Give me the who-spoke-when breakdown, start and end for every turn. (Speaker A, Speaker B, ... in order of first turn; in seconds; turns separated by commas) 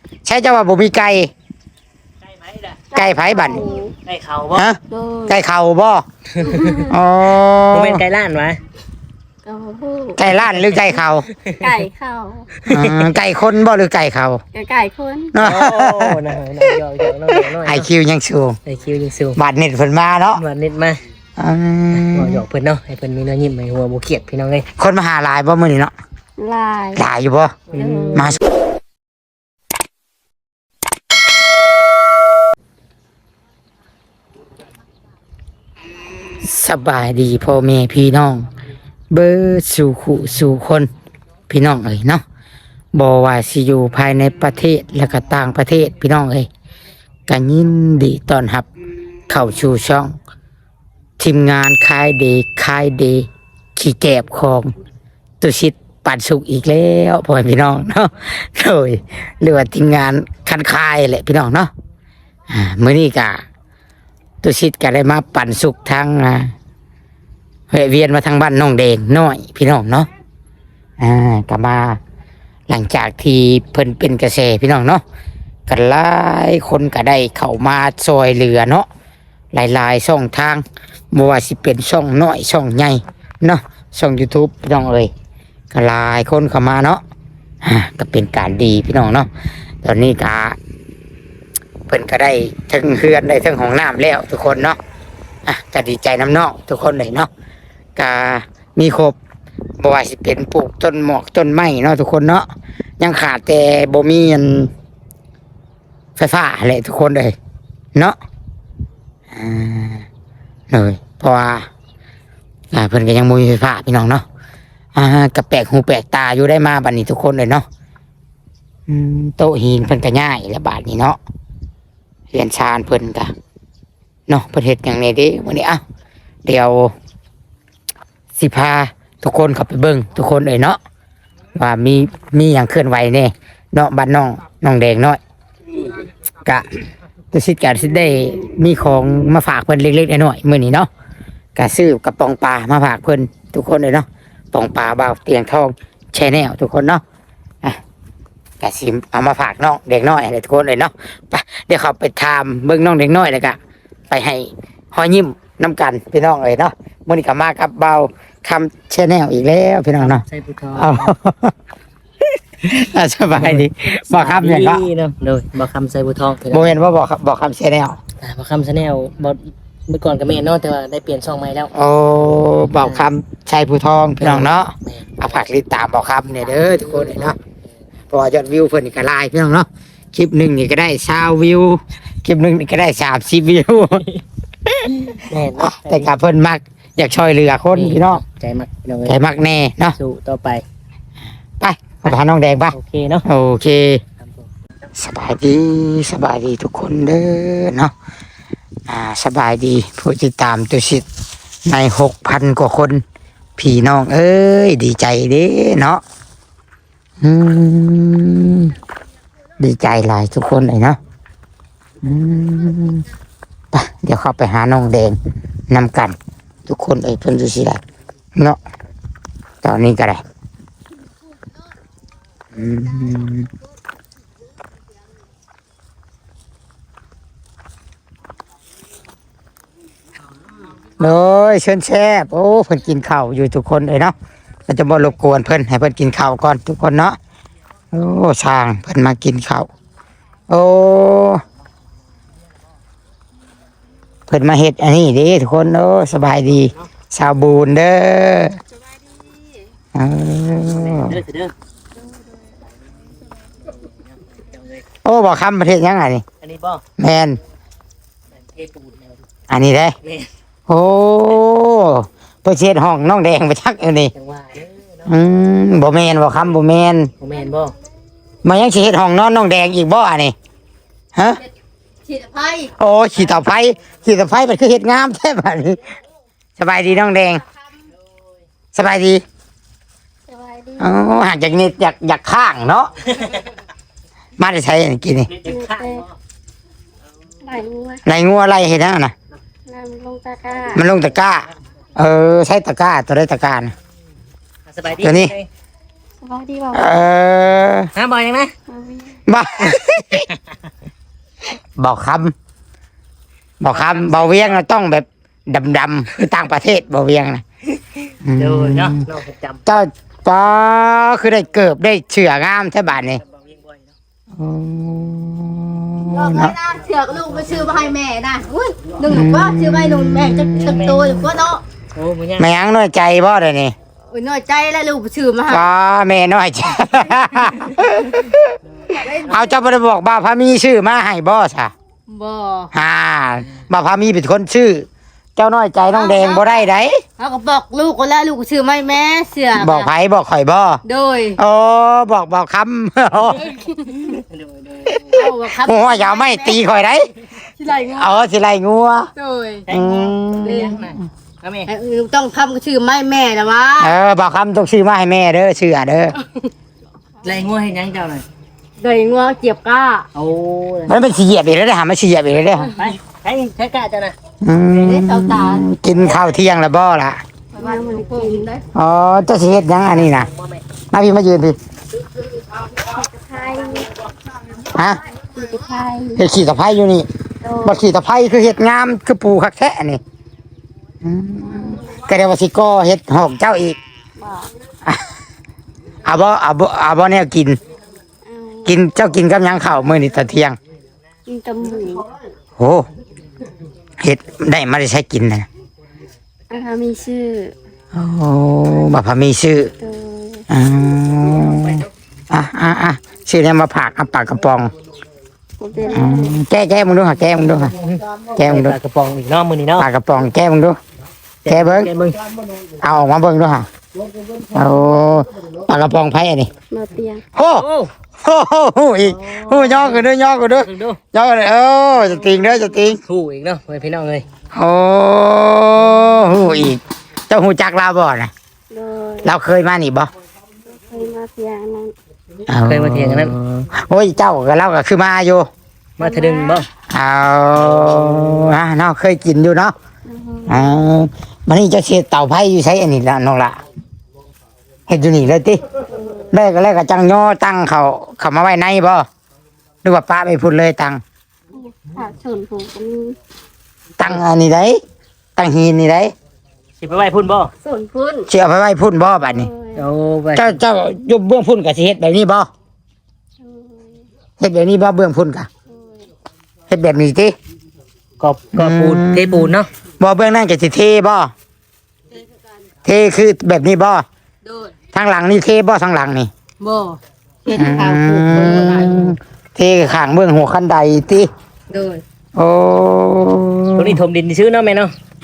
Speaker A: 0.2-1.3, Speaker B: 2.2-2.9, Speaker C: 2.9-3.9, Speaker A: 3.0-3.6, Speaker B: 4.0-4.7, Speaker A: 4.5-6.0, Speaker C: 4.9-5.4, Speaker B: 6.3-6.8, Speaker C: 6.5-7.0, Speaker A: 6.7-8.0, Speaker B: 7.7-8.6, Speaker C: 9.5-10.2, Speaker A: 10.2-11.3, Speaker B: 10.6-11.7, Speaker C: 11.6-12.5, Speaker B: 12.6-13.2, Speaker A: 12.7-14.4, Speaker C: 14.6-15.3, Speaker A: 15.3-16.2, Speaker B: 15.4-17.9, Speaker A: 17.6-18.6, Speaker B: 18.7-19.4, Speaker A: 19.4-20.4, Speaker B: 20.4-21.0, Speaker A: 21.4-22.4, Speaker B: 21.9-24.7, Speaker A: 24.8-25.9, Speaker C: 26.4-27.0, Speaker A: 26.9-27.5, Speaker B: 27.7-28.3, Speaker C: 27.8-28.4, Speaker A: 28.1-28.4, Speaker A: 36.4-38.4, Speaker A: 39.1-40.9, Speaker A: 41.5-42.2, Speaker A: 42.9-46.5, Speaker A: 47.3-48.7, Speaker A: 49.3-50.2, Speaker A: 51.2-54.7, Speaker A: 55.4-61.7, Speaker A: 62.5-63.4, Speaker A: 64.4-66.5, Speaker A: 67.7-70.1, Speaker A: 71.0-72.0, Speaker A: 72.7-75.0, Speaker A: 75.7-78.9, Speaker A: 79.5-85.1, Speaker A: 85.7-87.0, Speaker A: 87.6-89.3, Speaker A: 89.8-90.6, Speaker A: 91.9-94.8, Speaker A: 95.5-97.3, Speaker A: 98.0-99.2, Speaker A: 99.8-102.5, Speaker A: 103.0-104.7, Speaker A: 106.2-107.4, Speaker A: 109.3-110.1, Speaker A: 110.7-111.7, Speaker A: 112.7-114.2, Speaker A: 115.0-117.7, Speaker A: 118.9-121.2, Speaker A: 122.3-123.3, Speaker A: 124.3-125.8, Speaker A: 126.5-126.9, Speaker A: 128.3-130.8, Speaker A: 131.6-135.2, Speaker A: 137.3-140.9, Speaker A: 141.6-147.0, Speaker A: 148.6-153.6, Speaker A: 154.1-160.2, Speaker B: 160.0-161.2, Speaker A: 160.8-161.5, Speaker A: 162.6-164.8, Speaker B: 163.3-166.8, Speaker A: 166.5-168.0, Speaker B: 168.2-171.7, Speaker A: 171.7-177.4, Speaker B: 172.8-173.1, Speaker B: 174.2-175.5, Speaker B: 176.4-177.3, Speaker A: 178.1-184.0, Speaker B: 183.9-184.2, Speaker A: 184.8-188.2, Speaker B: 184.9-186.1, Speaker B: 187.7-189.2, Speaker A: 189.1-190.0, Speaker B: 190.0-190.6, Speaker A: 191.6-194.0, Speaker B: 192.7-193.3, Speaker B: 194.2-194.5, Speaker A: 195.0-197.9, Speaker A: 198.9-201.1, Speaker A: 201.7-203.0, Speaker A: 203.6-206.0, Speaker A: 207.2-208.8, Speaker A: 209.6-211.0, Speaker A: 212.0-213.1, Speaker A: 213.7-215.2, Speaker A: 215.7-216.2, Speaker A: 216.7-217.8, Speaker A: 219.6-220.2, Speaker A: 222.6-223.5, Speaker A: 231.0-234.1, Speaker A: 234.7-237.2, Speaker A: 237.9-239.7, Speaker A: 240.5-241.4, Speaker A: 244.3-248.6, Speaker B: 246.5-246.9, Speaker A: 249.9-251.2, Speaker B: 250.6-251.5, Speaker B: 253.5-254.8, Speaker A: 255.0-256.2, Speaker B: 256.4-256.8, Speaker A: 257.0-257.4, Speaker B: 258.4-259.2, Speaker A: 259.5-260.0, Speaker B: 260.0-260.3, Speaker A: 260.7-264.1, Speaker B: 264.1-265.1, Speaker A: 265.1-267.1, Speaker B: 267.2-267.7, Speaker A: 268.4-270.3, Speaker A: 271.1-271.4, Speaker D: 272.0-272.7, Speaker A: 272.8-275.8, Speaker A: 276.6-277.4, Speaker A: 278.7-279.2, Speaker C: 280.3-280.9, Speaker A: 280.8-282.9, Speaker A: 284.4-285.3, Speaker B: 285.3-286.2, Speaker C: 285.5-286.0, Speaker C: 287.4-288.0, Speaker A: 288.1-289.1, Speaker C: 289.7-290.9, Speaker A: 290.7-293.7, Speaker B: 294.7-295.5, Speaker A: 295.0-295.3, Speaker C: 296.2-297.0, Speaker A: 296.7-297.9, Speaker B: 297.9-298.5, Speaker C: 298.7-299.2, Speaker A: 299.3-300.3, Speaker A: 301.8-302.3, Speaker A: 303.6-307.4, Speaker B: 303.7-304.6, Speaker A: 308.2-309.1, Speaker B: 308.4-309.6, Speaker A: 309.7-313.2, Speaker B: 312.9-313.9, Speaker A: 314.3-316.6, Speaker D: 316.0-321.6, Speaker A: 319.1-321.1, Speaker B: 320.5-321.1, Speaker B: 321.9-322.5, Speaker A: 322.4-323.8, Speaker D: 324.1-325.7, Speaker A: 325.5-331.7, Speaker D: 329.0-329.5, Speaker D: 332.1-332.7, Speaker A: 332.7-337.0, Speaker D: 335.9-336.7, Speaker D: 337.2-339.9, Speaker A: 339.6-340.8, Speaker D: 340.9-341.4, Speaker A: 341.4-343.6, Speaker D: 343.4-343.9, Speaker B: 344.1-345.3, Speaker A: 344.9-347.1, Speaker D: 345.1-346.6, Speaker D: 347.4-348.3, Speaker A: 347.9-349.1, Speaker D: 349.2-349.7, Speaker B: 349.7-351.7, Speaker A: 349.7-350.9, Speaker D: 350.4-350.8, Speaker D: 351.7-354.0, Speaker A: 353.8-356.2, Speaker B: 357.2-358.2, Speaker D: 358.8-360.1, Speaker B: 360.1-361.0, Speaker A: 360.9-362.7, Speaker B: 362.7-364.2, Speaker A: 364.4-367.2, Speaker D: 364.8-365.7, Speaker B: 366.1-366.4, Speaker C: 367.5-368.5, Speaker D: 367.6-368.6, Speaker A: 368.8-370.3, Speaker B: 369.8-370.6, Speaker A: 370.9-371.6, Speaker C: 372.8-374.0, Speaker A: 374.7-375.0, Speaker C: 375.3-376.2, Speaker A: 376.2-377.1, Speaker C: 377.4-377.8, Speaker A: 377.6-380.0, Speaker A: 381.0-383.8, Speaker C: 384.2-384.5, Speaker A: 386.1-387.6, Speaker C: 388.3-388.8, Speaker A: 388.6-390.6, Speaker C: 391.3-392.1, Speaker A: 392.6-392.9, Speaker A: 394.0-395.5, Speaker C: 396.5-397.6, Speaker A: 397.9-399.7, Speaker C: 399.8-400.4, Speaker A: 400.5-404.7, Speaker C: 405.6-406.4, Speaker A: 405.9-407.7, Speaker B: 407.8-409.9, Speaker A: 408.4-408.8, Speaker A: 409.8-410.8, Speaker B: 411.4-412.2, Speaker A: 411.5-411.9, Speaker A: 412.8-413.7, Speaker A: 414.6-416.5, Speaker C: 416.7-417.2, Speaker A: 417.4-417.7, Speaker B: 417.6-417.9, Speaker A: 418.2-423.0, Speaker B: 419.0-421.0, Speaker B: 423.1-424.3, Speaker A: 424.5-428.3, Speaker C: 428.7-429.3, Speaker A: 429.2-430.1, Speaker C: 430.7-431.9, Speaker A: 432.5-435.5, Speaker B: 432.6-433.7, Speaker B: 436.0-436.7, Speaker C: 436.0-436.6, Speaker A: 436.9-439.7, Speaker B: 437.6-438.5, Speaker C: 440.1-440.8, Speaker A: 440.5-443.6, Speaker A: 444.9-445.6, Speaker C: 445.9-446.4, Speaker A: 446.3-449.1, Speaker A: 449.8-451.0, Speaker C: 451.5-453.2, Speaker A: 454.0-454.8, Speaker A: 455.4-456.1, Speaker B: 456.8-457.5, Speaker D: 457.6-458.3, Speaker A: 458.3-459.5, Speaker C: 459.2-459.8, Speaker B: 459.8-460.6, Speaker A: 460.4-462.5, Speaker C: 463.4-464.1, Speaker A: 464.4-465.5, Speaker C: 465.7-466.1, Speaker A: 466.7-467.3, Speaker B: 468.2-469.7, Speaker A: 468.6-471.3, Speaker D: 472.1-472.6, Speaker A: 472.9-474.1, Speaker D: 474.4-474.8, Speaker A: 474.9-476.3, Speaker D: 476.6-479.2, Speaker A: 477.5-481.3, Speaker D: 481.7-482.0, Speaker A: 482.4-484.0, Speaker B: 483.8-484.9